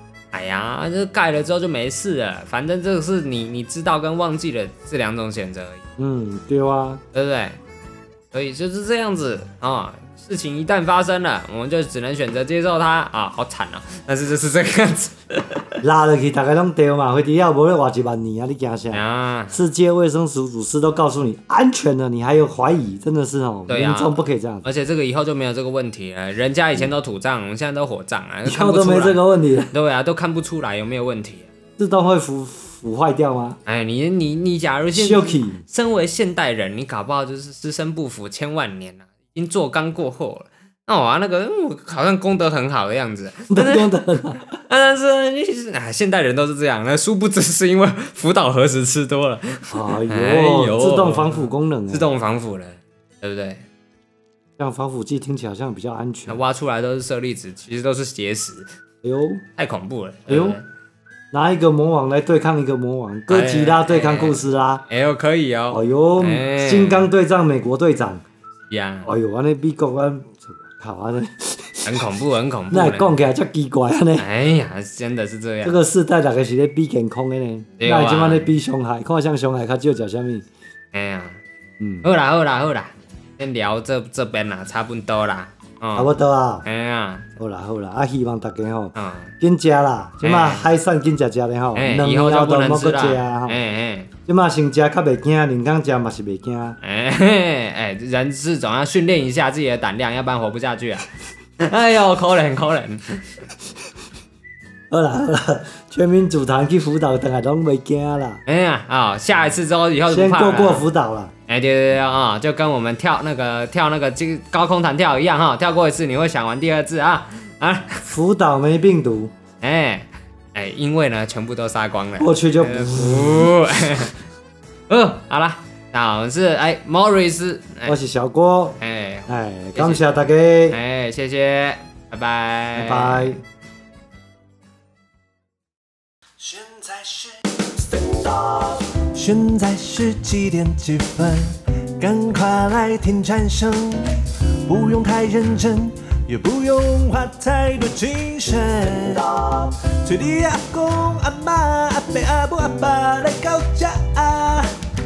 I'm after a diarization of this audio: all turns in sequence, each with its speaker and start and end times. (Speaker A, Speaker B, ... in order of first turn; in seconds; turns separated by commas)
Speaker A: 0.3-5.8, Speaker B: 6.0-7.0, Speaker A: 7.1-7.6, Speaker A: 8.3-15.8, Speaker B: 15.8-24.7, Speaker A: 18.9-19.6, Speaker A: 23.7-31.5, Speaker B: 28.5-29.7, Speaker B: 31.8-33.6, Speaker A: 33.7-43.9, Speaker B: 34.9-35.6, Speaker B: 43.5-44.6, Speaker A: 44.6-53.6, Speaker B: 49.7-52.1, Speaker B: 54.6-56.4, Speaker A: 56.3-58.7, Speaker B: 59.0-59.4, Speaker A: 59.6-60.6, Speaker B: 60.3-60.6, Speaker B: 61.3-64.8, Speaker A: 63.3-67.1, Speaker B: 65.7-68.2, Speaker A: 68.7-69.1, Speaker B: 69.0-72.0, Speaker A: 71.8-73.2, Speaker B: 72.7-74.3, Speaker A: 74.2-75.8, Speaker B: 75.6-80.5, Speaker A: 77.8-78.5, Speaker A: 80.9-81.4, Speaker B: 81.8-82.1, Speaker A: 82.0-86.1, Speaker B: 86.0-86.7, Speaker A: 86.7-87.3, Speaker B: 87.4-93.6, Speaker A: 89.0-89.3, Speaker A: 90.2-90.7, Speaker A: 91.8-94.1, Speaker B: 94.3-96.8, Speaker A: 96.8-101.1, Speaker A: 101.6-103.4, Speaker B: 104.9-108.4, Speaker A: 108.5-110.8, Speaker B: 110.1-111.3, Speaker A: 111.5-118.1, Speaker B: 118.0-119.3, Speaker A: 119.6-124.2, Speaker B: 122.2-123.6, Speaker A: 124.9-128.0, Speaker B: 127.8-130.8, Speaker A: 128.8-130.0, Speaker A: 130.7-133.3, Speaker B: 132.7-133.4, Speaker C: 136.4-154.8